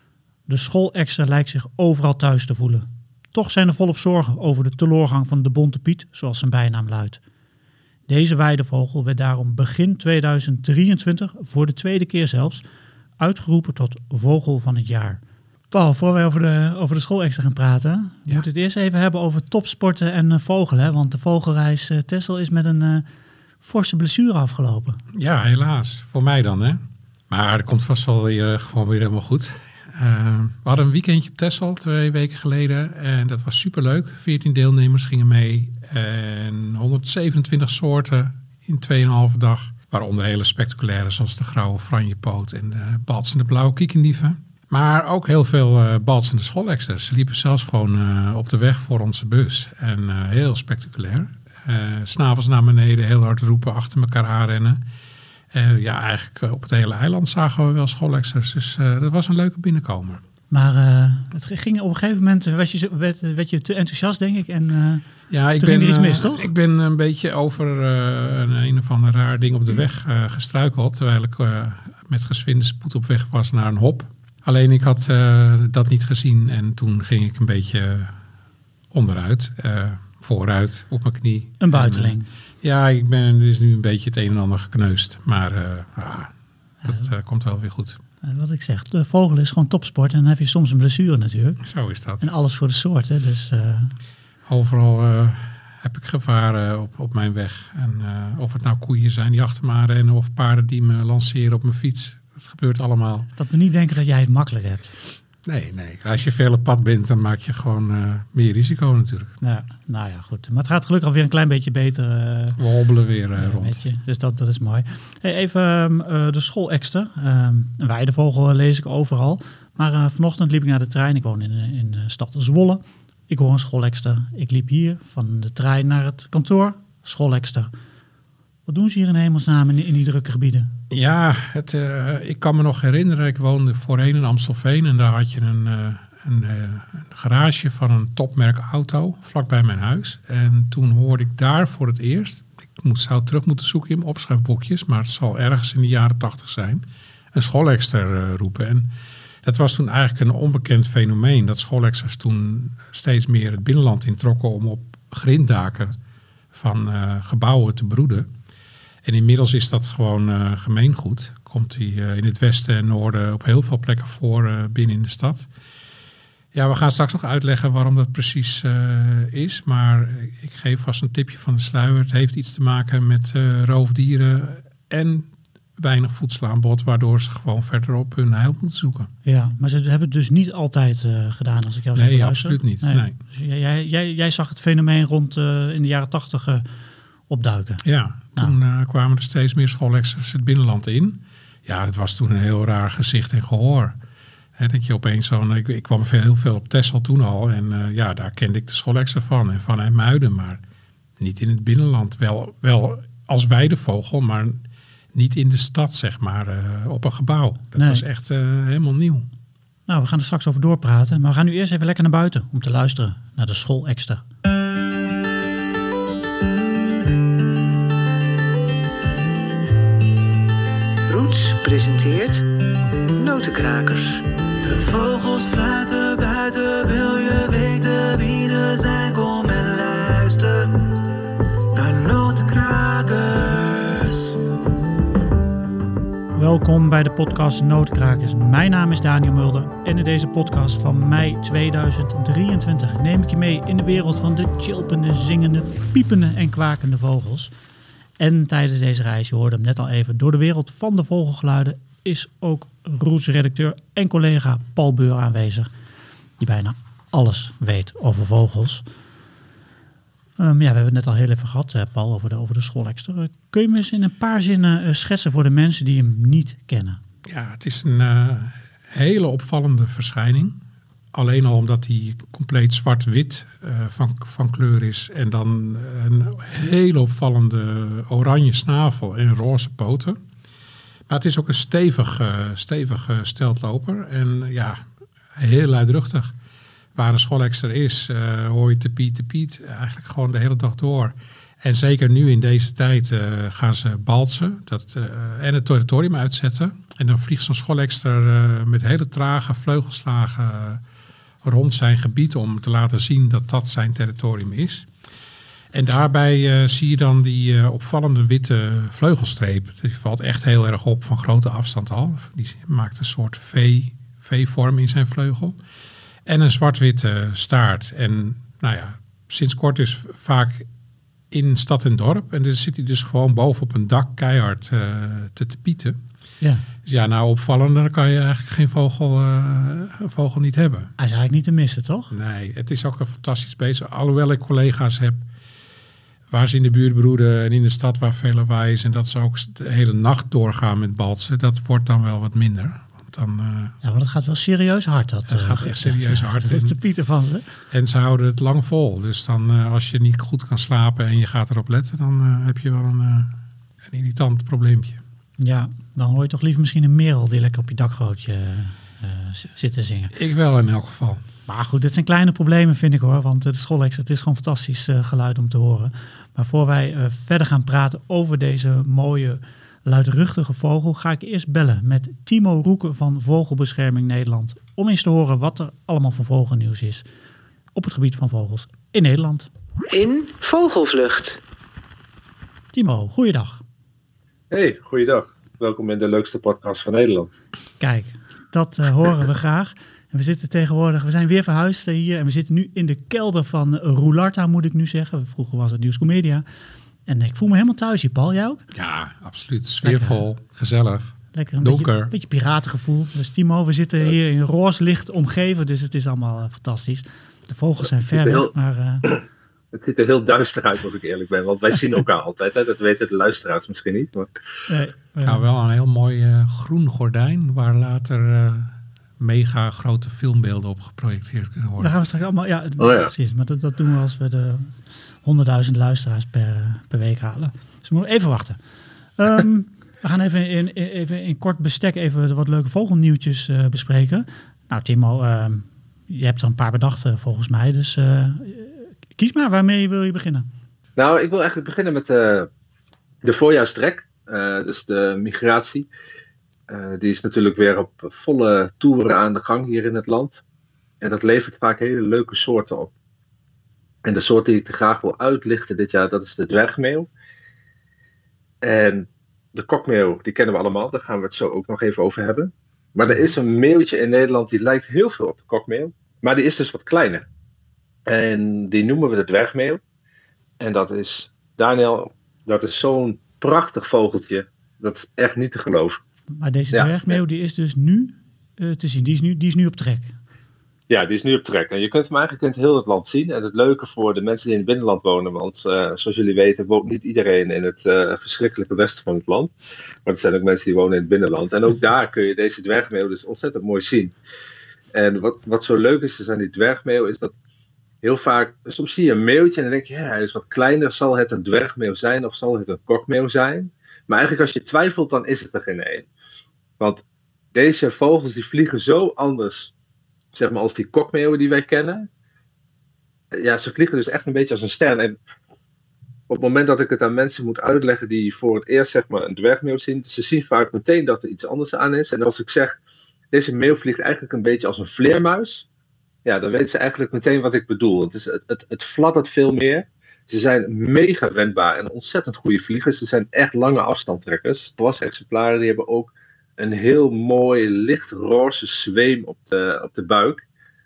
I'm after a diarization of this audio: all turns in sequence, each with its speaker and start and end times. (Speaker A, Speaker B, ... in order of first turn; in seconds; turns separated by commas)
Speaker A: 0.5-7.2, Speaker A: 8.1-12.6, Speaker A: 13.2-23.1, Speaker A: 23.6-25.0, Speaker B: 25.1-54.8, Speaker B: 55.5-60.2, Speaker A: 60.5-65.1, Speaker B: 65.3-78.1, Speaker A: 65.6-66.5, Speaker B: 78.9-86.3, Speaker A: 81.6-82.3, Speaker A: 86.8-87.1, Speaker B: 86.8-88.0, Speaker A: 88.2-91.6, Speaker B: 91.6-92.3, Speaker A: 92.2-94.0, Speaker B: 94.5-103.3, Speaker A: 103.4-105.0, Speaker B: 105.5-109.3, Speaker A: 109.4-112.6, Speaker B: 112.6-113.8, Speaker A: 113.4-127.7, Speaker A: 128.7-130.7, Speaker B: 130.9-148.9, Speaker B: 149.4-155.9, Speaker B: 156.5-158.3, Speaker B: 159.0-165.5, Speaker B: 166.5-179.1, Speaker A: 179.2-186.7, Speaker B: 182.0-183.2, Speaker A: 187.3-187.8, Speaker B: 187.8-194.0, Speaker B: 194.6-200.6, Speaker B: 201.2-204.6, Speaker B: 205.1-209.3, Speaker A: 207.8-208.1, Speaker A: 209.9-214.2, Speaker C: 221.1-222.4, Speaker C: 223.2-224.2, Speaker A: 224.7-230.6, Speaker D: 226.6-227.9, Speaker D: 228.8-230.2, Speaker A: 231.8-233.0, Speaker D: 231.8-233.2, Speaker D: 233.8-234.2, Speaker A: 236.3-247.5, Speaker A: 248.2-255.7, Speaker A: 256.4-258.8, Speaker A: 260.4-267.0, Speaker B: 267.3-270.6, Speaker B: 271.1-280.2, Speaker B: 281.1-284.8, Speaker B: 285.4-286.3, Speaker B: 286.9-300.8, Speaker B: 301.4-304.9, Speaker B: 305.7-315.6, Speaker B: 316.2-320.7, Speaker B: 321.3-326.0, Speaker B: 326.8-330.9, Speaker A: 331.0-332.1, Speaker B: 332.1-335.3, Speaker B: 336.3-343.8, Speaker A: 343.8-347.5, Speaker B: 345.3-346.8, Speaker B: 347.7-355.0, Speaker A: 355.4-360.1, Speaker B: 360.1-361.2, Speaker A: 361.5-377.1, Speaker A: 377.7-379.5, Speaker C: 379.9-381.4, Speaker A: 382.7-383.6, Speaker E: 384.5-387.3, Speaker A: 387.8-396.4, Speaker A: 397.1-398.6, Speaker B: 398.7-402.1, Speaker A: 399.8-400.2, Speaker A: 401.3-409.1, Speaker E: 408.1-408.5, Speaker E: 409.7-414.3, Speaker A: 414.7-415.4, Speaker B: 415.2-421.9, Speaker A: 421.8-428.6, Speaker E: 422.8-423.1, Speaker A: 429.2-440.5, Speaker E: 441.0-442.5, Speaker E: 443.2-445.9, Speaker E: 446.7-450.4, Speaker E: 451.0-452.9, Speaker E: 454.1-457.1, Speaker E: 458.6-467.2, Speaker E: 468.1-469.8, Speaker E: 470.6-476.0, Speaker A: 476.3-480.1, Speaker E: 476.7-477.2, Speaker E: 480.9-489.5, Speaker E: 490.1-494.1, Speaker E: 494.9-497.3, Speaker E: 498.0-506.1, Speaker E: 506.8-509.7, Speaker E: 510.3-512.1, Speaker E: 513.3-515.2, Speaker E: 516.3-522.8, Speaker E: 523.3-525.7, Speaker E: 526.2-540.4